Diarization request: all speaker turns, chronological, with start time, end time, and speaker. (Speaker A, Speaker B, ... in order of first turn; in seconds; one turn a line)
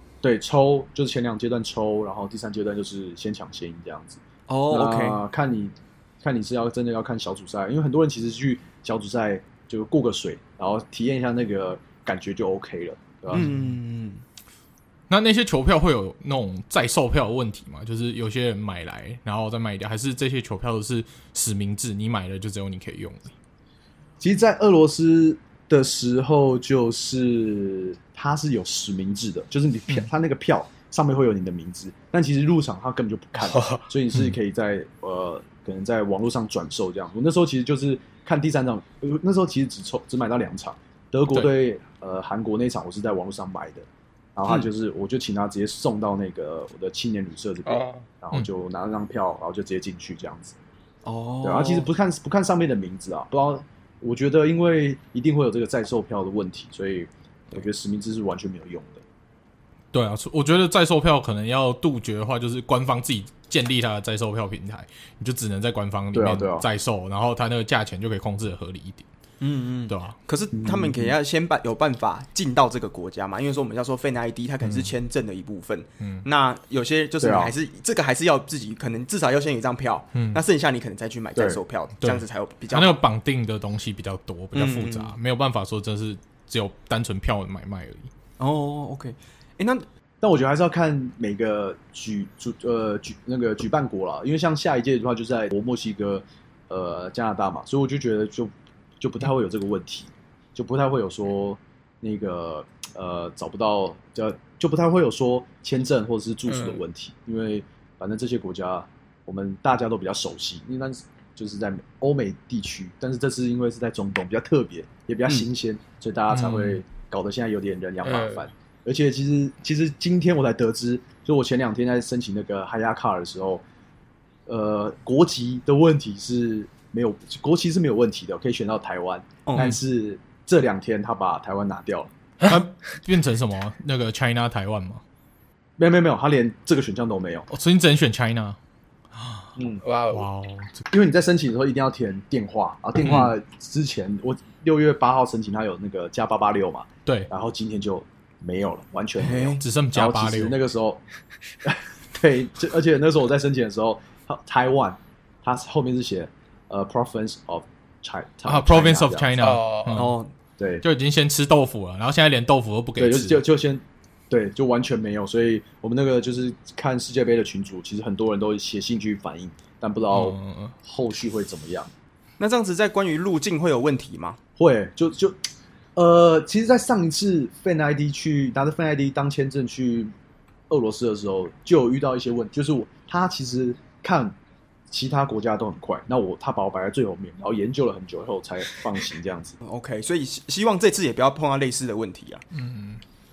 Speaker A: 0.2-13.5
Speaker B: 4.5-5.2
Speaker B: 13.3-14.2
Speaker C: 13.3-13.7
Speaker C: 15.1-23.3
Speaker A: 24.2-50.5
Speaker D: 33.4-33.8
Speaker D: 47.6-48.0
Speaker B: 51.0-51.9
Speaker A: 51.4-59.0
Speaker C: 59.9-69.0
Speaker A: 66.1-66.7
Speaker B: 69.4-83.0
Speaker C: 69.9-70.2
Speaker A: 70.5-71.1
Speaker C: 74.6-74.9
Speaker C: 76.0-76.2
Speaker A: 77.2-77.5
Speaker C: 80.1-80.4
Speaker A: 81.3-81.6
Speaker C: 82.0-88.1
Speaker B: 84.5-85.1
Speaker B: 88.4-89.8
Speaker A: 90.2-123.6
Speaker D: 106.5-106.8
Speaker C: 116.3-116.8
Speaker D: 118.0-118.4
Speaker A: 124.5-132.1
Speaker B: 129.4-129.8
Speaker C: 132.4-135.0
Speaker A: 135.8-137.5
Speaker C: 137.5-138.6
Speaker C: 139.1-139.5
Speaker A: 139.6-139.8
Speaker D: 139.8-140.2
Speaker C: 140.1-140.8
Speaker A: 140.9-151.0
Speaker C: 143.0-143.3
Speaker B: 149.2-149.6
Speaker C: 149.6-150.6
Speaker A: 151.6-159.3
Speaker C: 158.4-160.2
Speaker D: 159.4-160.1
Speaker B: 159.9-160.3
Speaker A: 160.6-160.8
Speaker C: 160.8-163.4
Speaker A: 163.0-171.9
Speaker C: 170.1-170.7
Speaker B: 172.4-174.4
Speaker A: 174.6-175.4
Speaker A: 175.9-180.1
Speaker A: 180.7-184.3
Speaker A: 184.9-189.6
Speaker B: 189.6-192.4
Speaker C: 192.5-193.0